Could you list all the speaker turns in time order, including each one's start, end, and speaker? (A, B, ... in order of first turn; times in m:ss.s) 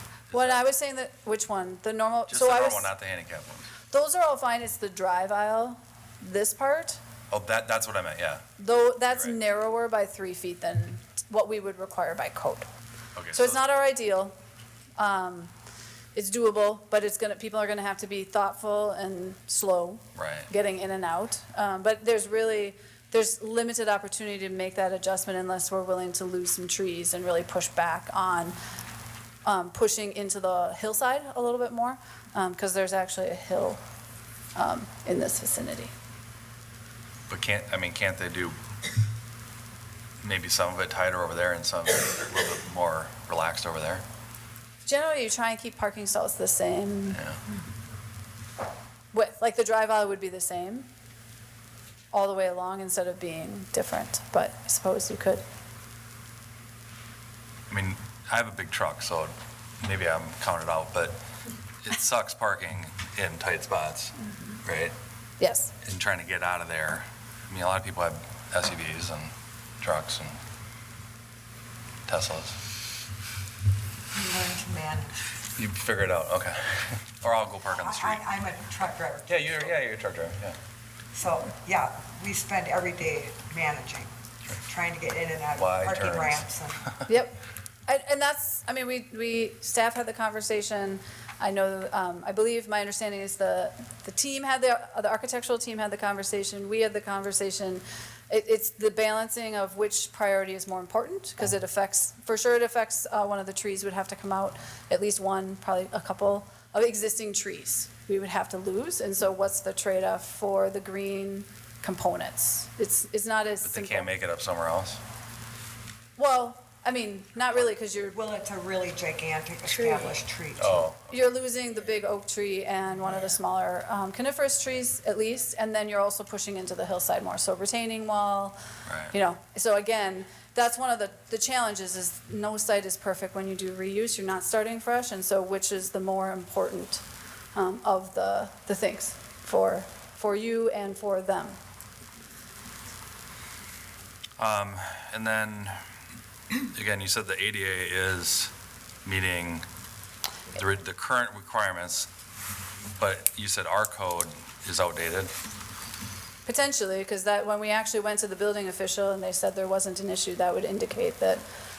0:00.3-0:00.6 A
0:00.3-0:02.9 B
0:02.3-0:03.7 A
0:03.9-0:07.0 B
0:07.3-0:08.5 A
0:08.6-0:12.7 B
0:09.1-0:09.4 A
0:13.2-0:13.6 A
0:13.3-0:14.4 B
0:15.0-0:15.5 B
0:16.2-0:28.6 B
0:20.2-0:20.5 A
0:29.4-0:33.8 B
0:34.6-0:35.9 B
0:37.3-0:38.6 A
0:40.2-0:44.0 A
0:44.8-0:47.2 B
0:47.1-0:47.4 A
0:49.1-0:50.9 B
0:52.1-0:55.4 B
0:57.7-1:01.2 A
1:01.8-1:04.9 A
1:05.4-1:05.7 B
1:05.8-1:10.4 A
1:12.1-1:12.6 A
1:14.1-1:15.1 C
1:15.6-1:18.4 A
1:17.7-1:19.8 C
1:19.2-1:20.6 A
1:21.1-1:24.1 C
1:24.6-1:26.9 C
1:25.6-1:27.1 A
1:27.1-1:54.1 B
1:53.6-1:55.0 A
1:56.2-1:58.2 B
1:58.1-2:00.9 C
2:00.6-2:01.2 A
2:01.1-2:08.6 B
2:08.9-2:09.1 A
2:09.1-2:17.0 B
2:17.6-2:21.6 B
2:24.4-2:25.8 A
2:26.7-2:28.5 A
2:29.0-2:29.6 A
2:30.5-2:32.1 A
2:33.0-2:35.3 A
2:36.5-2:41.4 B